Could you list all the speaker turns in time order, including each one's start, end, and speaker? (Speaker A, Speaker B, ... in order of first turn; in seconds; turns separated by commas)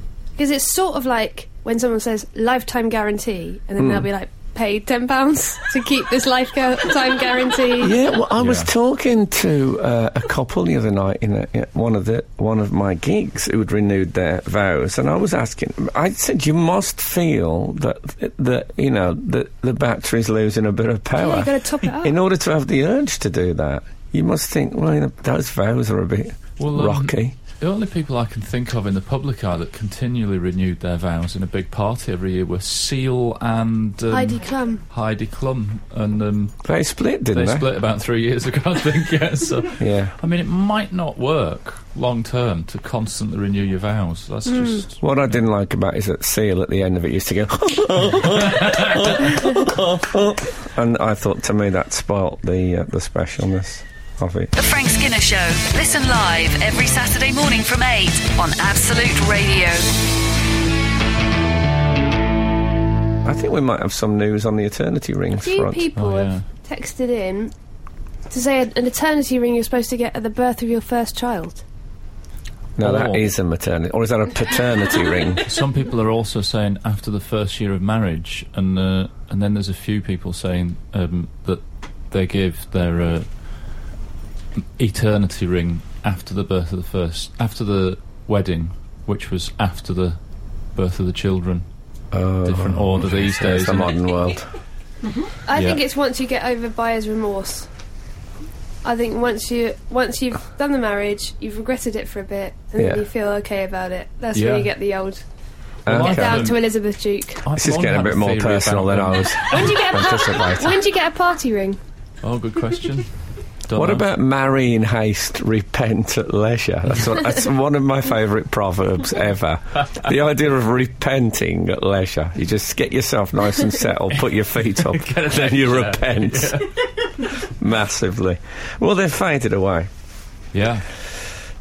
Speaker A: 0.4-8.0, Speaker B: 3.8-4.0, Speaker B: 7.8-27.3, Speaker C: 8.4-8.7, Speaker A: 21.2-22.1, Speaker C: 26.6-36.6, Speaker A: 34.1-34.8, Speaker B: 36.6-37.7, Speaker C: 37.3-45.0, Speaker B: 39.8-40.1, Speaker B: 45.0-54.5, Speaker C: 48.5-49.0, Speaker D: 54.5-59.9, Speaker B: 63.2-65.8, Speaker A: 65.4-67.5, Speaker C: 66.0-66.4, Speaker A: 68.3-71.6, Speaker B: 72.8-75.5, Speaker C: 72.8-73.3, Speaker C: 75.4-83.3, Speaker C: 84.8-90.2, Speaker C: 90.7-91.6, Speaker B: 92.1-94.5, Speaker C: 92.4-94.0, Speaker A: 95.5-97.7, Speaker A: 98.8-105.2, Speaker B: 102.8-103.0, Speaker C: 104.3-104.7, Speaker B: 105.8-106.5, Speaker C: 105.9-106.6, Speaker A: 105.9-107.4, Speaker C: 107.4-109.7, Speaker B: 107.5-110.8, Speaker A: 109.5-111.8, Speaker C: 112.2-113.1, Speaker C: 113.7-114.0, Speaker B: 113.7-126.7, Speaker C: 124.7-127.3, Speaker B: 127.4-129.9, Speaker C: 130.5-130.9